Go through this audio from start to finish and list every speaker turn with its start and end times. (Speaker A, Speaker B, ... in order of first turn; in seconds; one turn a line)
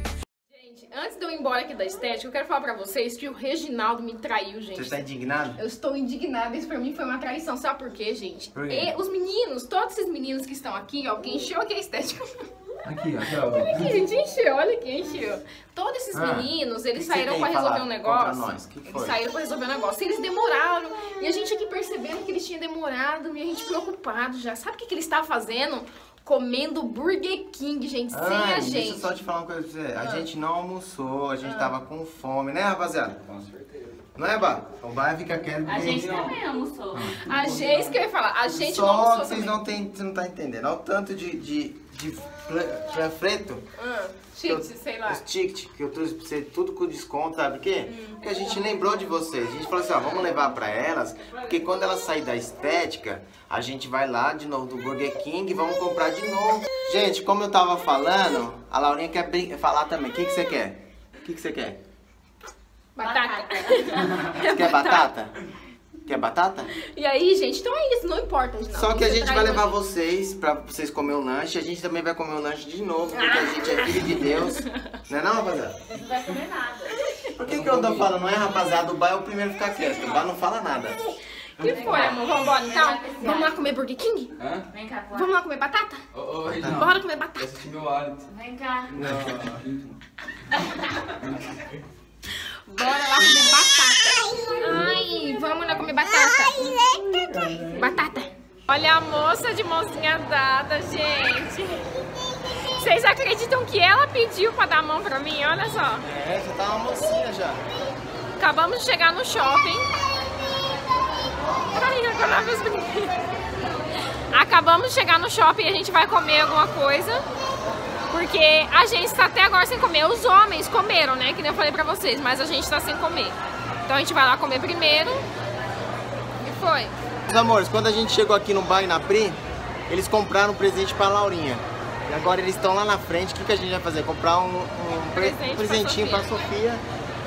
Speaker A: 0.5-5.0
Speaker B: 4.7-5.6
Speaker A: 5.6-12.2
Speaker B: 8.5-8.9
Speaker B: 12.8-13.9
Speaker A: 13.5-29.1
Speaker B: 16.1-19.2
Speaker B: 28.1-33.2
Speaker A: 30.0-30.3
Speaker A: 31.4-31.7
Speaker C: 33.2-33.9
Speaker B: 34.2-36.2
Speaker D: 35.6-37.2
Speaker C: 36.0-36.4
Speaker A: 37.2-39.6
Speaker B: 38.5-43.6
Speaker A: 43.8-45.2
Speaker B: 44.4-61.8
Speaker A: 47.9-48.7
Speaker A: 63.0-65.1
Speaker D: 63.0-64.2
Speaker B: 64.3-65.3
Speaker B: 66.1-66.7
Speaker A: 66.9-69.8
Speaker B: 68.7-75.8
Speaker A: 73.2-74.4
Speaker D: 75.9-77.0
Speaker B: 77.4-81.0
Speaker C: 77.4-78.1
Speaker A: 81.6-84.3
Speaker C: 81.6-82.2
Speaker D: 81.7-83.7
Speaker C: 84.4-84.7
Speaker D: 84.7-85.3
Speaker A: 85.1-86.0
Speaker C: 86.1-88.3
Speaker B: 86.5-86.8
Speaker A: 86.7-87.5
Speaker D: 88.3-88.9
Speaker B: 88.9-89.6
Speaker C: 89.0-90.0
Speaker C: 91.2-91.8
Speaker A: 92.7-96.7
Speaker B: 96.7-97.9
Speaker A: 97.7-101.8
Speaker A: 102.8-106.1
Speaker B: 106.0-107.6
Speaker A: 108.4-109.8
Speaker A: 111.7-113.2
Speaker A: 114.3-117.2
Speaker A: 118.1-125.2
Speaker A: 126.4-126.9
Speaker B: 127.3-136.8
Speaker A: 135.1-136.4